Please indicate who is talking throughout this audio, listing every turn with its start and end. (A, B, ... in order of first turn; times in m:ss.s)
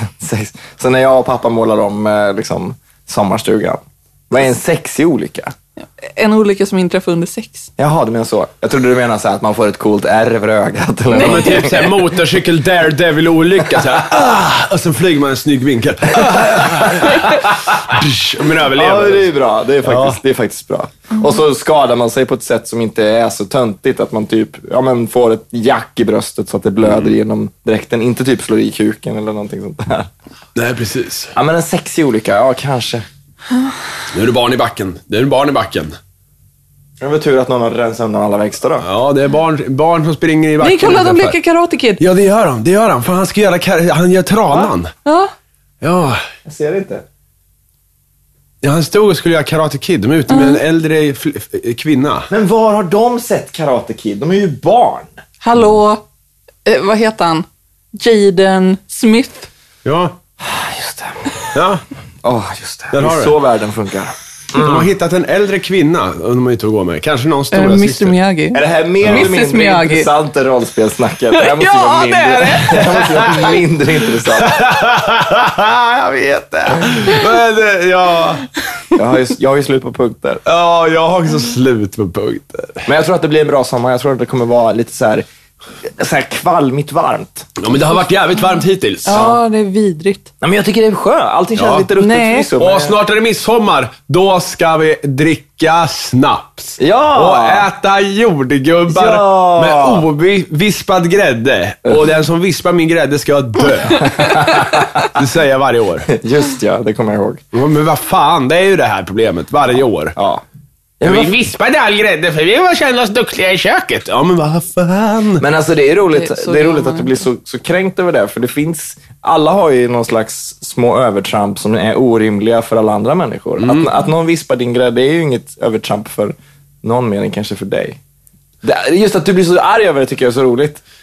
0:00.2-0:05.5 A
0:06.0-0:07.7 B
0:07.8-0:11.9 A
0:11.1-0:12.0 B
0:11.2-0:20.2 C
0:18.7-0:30.1 A
0:30.5-0:31.3 C
0:31.3-0:33.0 A
0:34.1-0:36.0 C
0:37.0-0:38.8 A
0:38.8-0:41.4 C
0:40.6-0:42.0 B
0:42.0-0:44.9 C
0:45.0-0:45.3 B
0:45.8-0:46.2 C
0:46.4-0:47.0 A
0:48.6-0:52.3 C
0:50.3-0:50.6 B
0:52.3-0:55.1 A
0:55.4-0:56.0 B
0:56.6-0:59.5 B
0:59.8-1:00.2 C
1:00.4-1:01.4 A
1:01.5-1:01.8 C
1:02.2-1:04.9 A
1:02.9-1:03.3 C
1:04.5-1:08.2 C
1:07.5-1:10.1 B
1:08.5-1:14.6 A
1:11.3-1:13.6 B
1:14.4-1:18.5 C
1:18.9-1:20.4 A
1:20.4-1:22.8 C
1:22.8-1:25.2 A
1:25.8-1:27.5 A
1:27.6-1:29.2 C
1:29.0-1:30.3 B
1:29.1-1:29.4 A
1:30.4-1:33.0 A
1:31.6-1:31.9 C
1:32.0-1:32.5 B
1:32.6-1:46.1 C
1:36.8-1:37.7 A
1:38.9-1:40.0 A
1:44.2-1:44.8 A
1:46.1-1:47.4 A
1:47.5-1:50.1 C
1:50.2-1:50.4 A
1:51.0-1:51.3 A
1:51.0-1:55.4 C
1:55.4-2:08.0 A
1:56.1-1:57.2 B
2:03.6-2:03.9 C
2:08.6-2:10.8 A